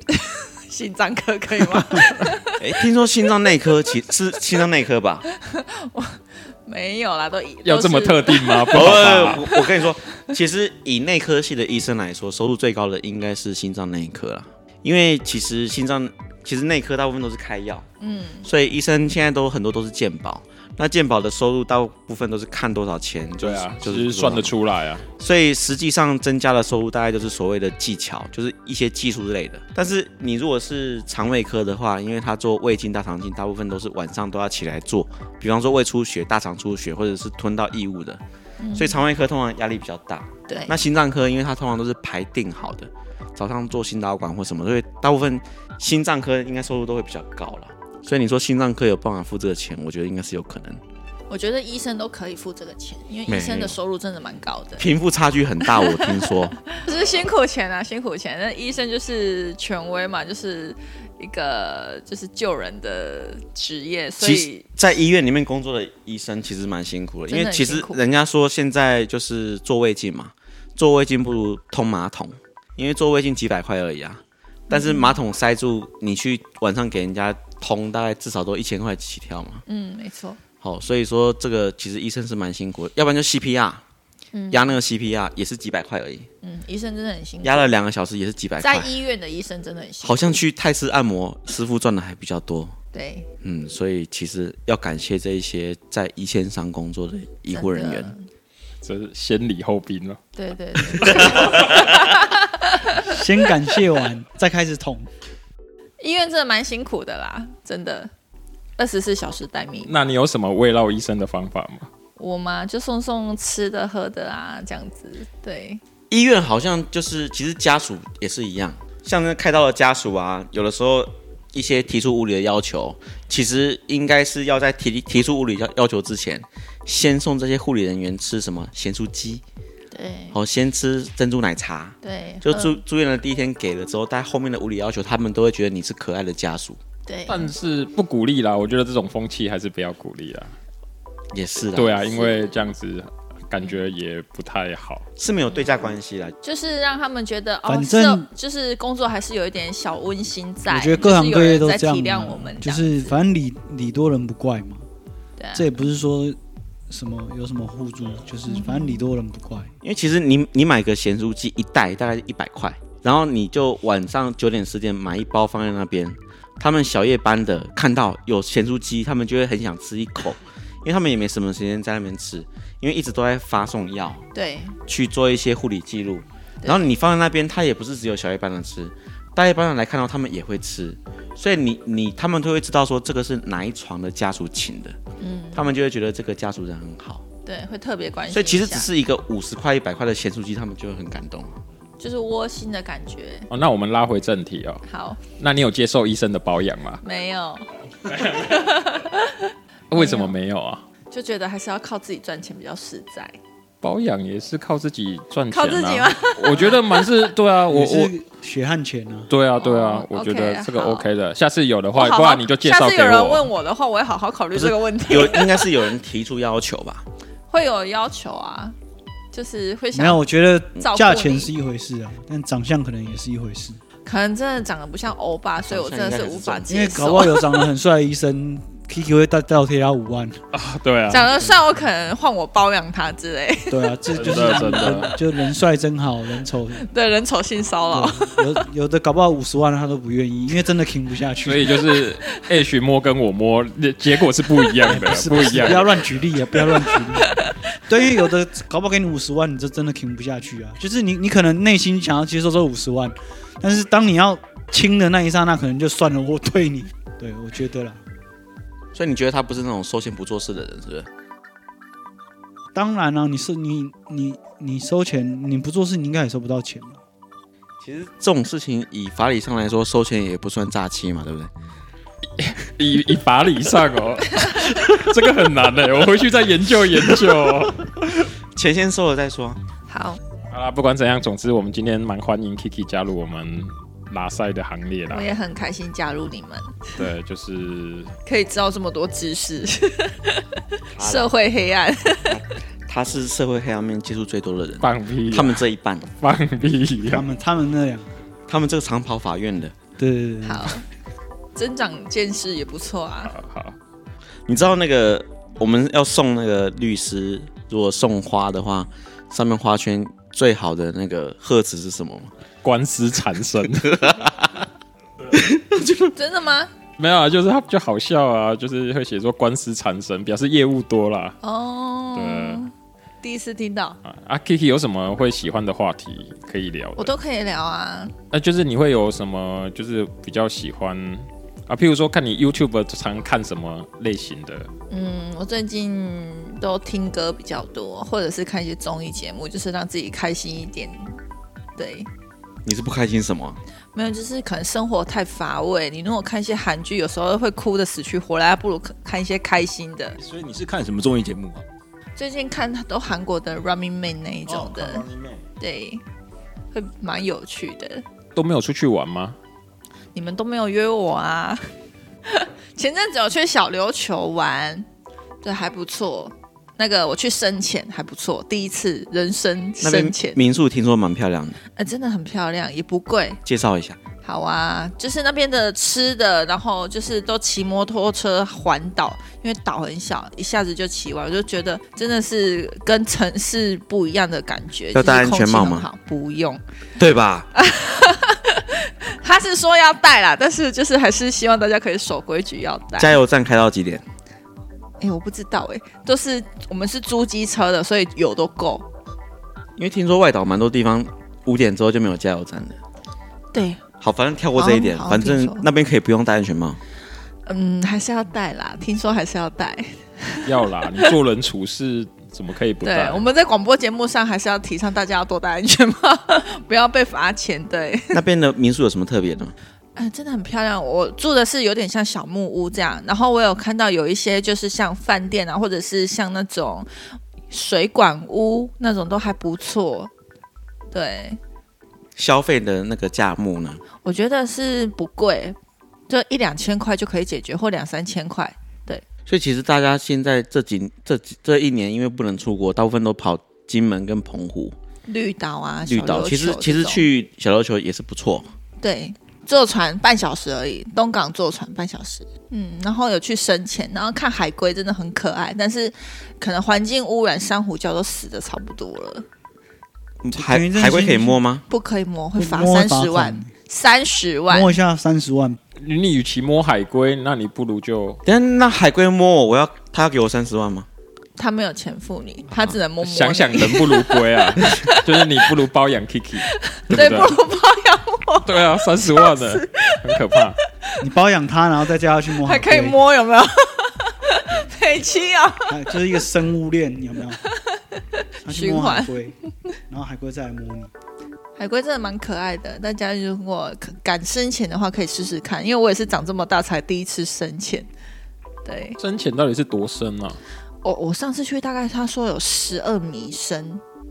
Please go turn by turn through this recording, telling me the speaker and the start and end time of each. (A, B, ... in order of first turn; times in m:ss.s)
0:00.1-0:02.6 A
0:01.6-0:02.1 B
0:02.6-0:05.2 C
0:05.3-0:09.6 A
0:07.6-0:09.4 D
0:08.7-0:17.9 C
0:18.0-0:18.5 A
0:18.4-0:24.5 C
0:23.4-0:25.1 D
0:25.2-0:38.2 C
0:38.6-0:39.0 A
0:38.8-0:50.8 C
0:40.5-0:40.7 A
0:51.3-0:54.9 A
0:53.3-0:53.8 C
0:54.8-0:56.7 C
0:55.6-0:56.0 A
0:56.7-1:04.7 A
1:04.2-1:19.6 C
1:07.3-1:08.0 A
1:14.7-1:15.2 A
1:19.7-1:20.4 A
1:20.6-1:23.8 C
1:24.3-1:24.6 A
1:24.5-1:26.3 C
1:26.4-1:27.7 A
1:27.4-1:28.9 C
1:28.6-1:30.4 A
1:30.0-1:32.8 C
1:32.9-1:33.3 A
1:33.4-1:38.1 C
1:37.5-1:38.3 A
1:38.8-1:40.2 D
1:40.4-1:43.2 A
1:41.0-1:41.6 D
1:43.0-1:45.1 B
1:46.0-1:48.1 A
1:48.8-1:49.9 A
1:49.9-1:51.9 D
1:52.2-1:55.8 A
1:56.1-2:09.4 C
2:09.9-2:10.4 A
2:10.3-2:16.8 C
2:12.0-2:12.8 A
2:17.1-2:17.5 A
2:17.3-2:20.5 D
2:21.3-2:22.2 C
2:21.7-2:25.0 D
2:22.1-2:22.6 A
2:25.2-2:26.4 C
2:26.4-2:33.2 A
2:27.7-2:28.3 B
2:30.7-2:34.9 B
2:35.4-2:35.7 A
2:35.6-2:36.4 B
2:36.9-2:39.7 B
2:38.5-2:39.1 A
2:39.8-2:54.2 C
2:54.3-2:54.8 A
2:54.9-3:05.0 C
3:05.2-3:05.6 A
3:05.6-3:07.2 C
3:07.4-3:08.9 A
3:08.3-3:11.5 C
3:12.0-3:13.5 A
3:13.5-3:14.8 D
3:14.9-3:15.2 A
3:15.4-3:17.0 D
3:17.0-3:20.3 A
3:19.9-3:20.8 D
3:21.1-3:23.4 A
3:23.8-3:28.1 D
3:25.5-3:27.1 A
3:27.7-3:29.3 B
3:29.3-3:33.5 D
3:29.6-3:31.1 A
3:32.0-3:35.7 A
3:34.6-3:37.0 C
3:37.5-3:38.8 A
3:39.3-3:40.2 A
3:39.9-3:43.8 B
3:40.8-3:41.5 A
3:44.0-3:47.6 A
3:45.7-3:47.0 C
3:46.7-3:50.4 B
3:50.5-3:51.3 D
3:51.1-3:54.6 A
3:51.3-3:51.6 B
3:53.7-3:56.9 B
3:54.1-3:55.1 D
3:56.8-3:58.6 A
3:57.9-4:01.7 B
4:01.4-4:06.0 D
4:04.8-4:18.0 B
4:07.2-4:07.6 A
4:18.9-4:21.1 C
4:22.7-4:27.0 B
4:27.8-4:31.5 C
4:32.4-4:37.9 D
4:38.6-4:39.6 C
4:39.9-4:40.2 A
4:40.5-4:45.3 D
4:45.1-4:46.9 A
4:47.0-4:48.1 D
4:48.3-4:52.4 A
4:51.0-4:51.3 C
4:52.3-4:56.1 C
4:54.8-4:57.3 D
4:57.0-4:58.1 B
4:58.5-4:59.8 C
5:00.0-5:00.8 B
5:00.4-5:00.8 A
5:01.6-5:03.3 A
5:03.3-5:03.8 D
5:04.5-5:12.3 C
5:12.6-5:13.9 D
5:13.8-5:14.7 C
5:15.3-5:16.1 C
5:16.2-5:16.7 A
5:17.0-5:21.4 D
5:21.4-5:24.0 A
5:22.2-5:22.6 D
5:24.0-5:27.1 D
5:27.0-5:28.1 A
5:28.3-5:34.7 D
5:34.9-5:41.2 A
5:41.8-5:42.1 A
5:42.6-5:43.6 C
5:43.9-5:50.2 A
5:50.2-5:51.6 E
5:52.2-5:55.0 A
5:54.5-5:55.4 E
5:55.6-5:56.0 A
5:56.7-5:58.0 A
5:58.4-5:59.4 D
6:00.1-6:01.6 A
6:02.3-6:04.9 A
6:05.4-6:10.4 A
6:09.8-6:11.6 C
6:11.8-6:13.4 A
6:13.4-6:14.0 C
6:14.2-6:26.6 A
6:24.9-6:25.9 C
6:27.0-6:27.5 C
6:27.6-6:33.2 A
6:33.0-6:34.0 C
6:35.0-6:38.9 A
6:39.8-6:42.8 C
6:43.5-6:43.8 A
6:44.0-6:46.8 C
6:44.6-6:45.7 A
6:47.5-6:51.1 A
6:50.4-6:53.2 D
6:52.8-6:58.2 A
6:58.1-6:59.5 C
7:00.0-7:06.9 A
7:07.5-7:10.1 A
7:10.9-7:11.4 A
7:12.2-7:13.8 C
7:14.0-7:15.6 A
7:16.1-7:19.0 A
7:19.3-7:24.8 C
7:25.1-7:27.0 A
7:25.9-7:28.5 C
7:28.8-7:39.2 A
7:40.2-7:41.6 C
7:40.3-7:41.4 B
7:41.7-7:44.8 A
7:42.4-7:43.5 B
7:44.5-7:45.6 B
7:45.8-7:48.2 D
7:48.3-7:50.9 C
7:51.4-7:55.5 A
7:53.0-7:57.4 D
7:56.4-8:00.9 A
7:58.4-8:00.6 D
8:01.0-8:03.0 B
8:02.4-8:06.0 A
8:05.7-8:07.4 B
8:07.4-8:09.1 A
8:08.4-8:09.4 B
8:09.9-8:10.9 B
8:11.6-8:17.9 A
8:18.6-8:19.0 A
8:19.0-8:20.4 D
8:20.8-8:23.8 A